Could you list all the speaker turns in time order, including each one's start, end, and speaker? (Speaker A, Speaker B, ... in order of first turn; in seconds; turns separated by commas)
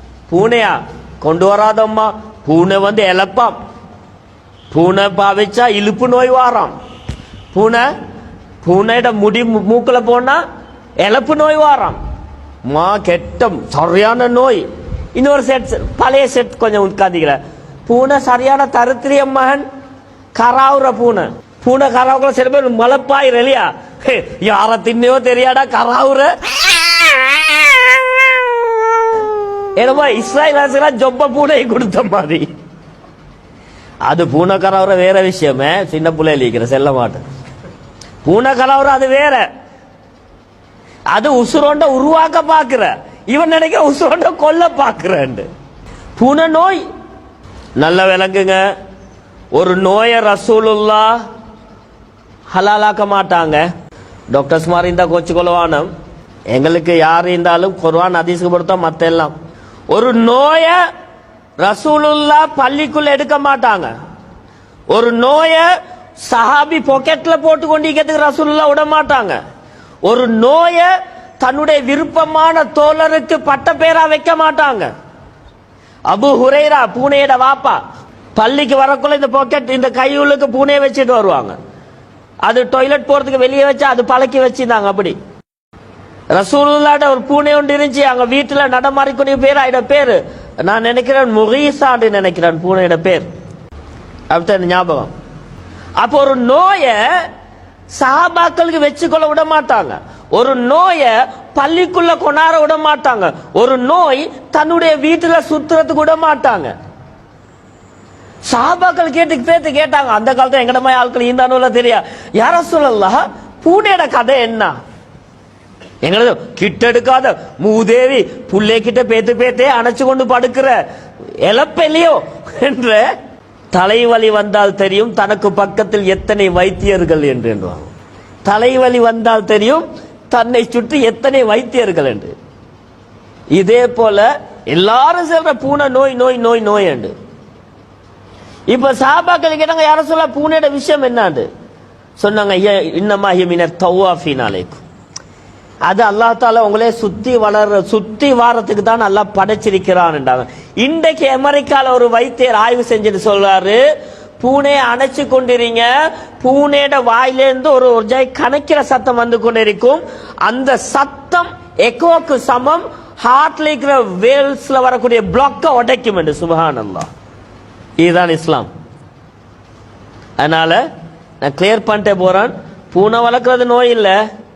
Speaker A: 0.3-3.6, Speaker A: 4.7-6.7, Speaker A: 7.5-7.9, Speaker A: 8.6-10.4, Speaker A: 11.0-12.0, Speaker A: 12.7-19.7, Speaker A: 20.4-26.3, Speaker A: 29.8-32.5, Speaker A: 34.0-37.2, Speaker A: 38.2-39.5, Speaker A: 41.1-45.5, Speaker A: 46.2-46.8, Speaker A: 47.8-48.7, Speaker A: 49.5-51.2, Speaker A: 52.5-53.7, Speaker A: 54.3-55.9, Speaker A: 56.5-59.3, Speaker A: 59.9-60.8, Speaker A: 61.6-63.9, Speaker A: 64.9-65.7, Speaker A: 66.2-69.4, Speaker A: 70.0-74.9, Speaker A: 76.1-77.8, Speaker A: 78.3-81.6, Speaker A: 82.4-85.2, Speaker A: 86.3-93.3, Speaker A: 94.3-95.1, Speaker A: 96.0-97.3, Speaker A: 97.9-106.7, Speaker A: 108.5-114.8, Speaker A: 116.0-120.8, Speaker A: 121.4-123.0, Speaker A: 123.7-127.9, Speaker A: 128.4-132.3, Speaker A: 133.5-137.1, Speaker A: 138.7-141.5, Speaker A: 142.2-144.8, Speaker A: 145.8-153.8, Speaker A: 154.4-167.1, Speaker A: 168.0-168.7, Speaker A: 170.4-170.9, Speaker A: 171.4-174.2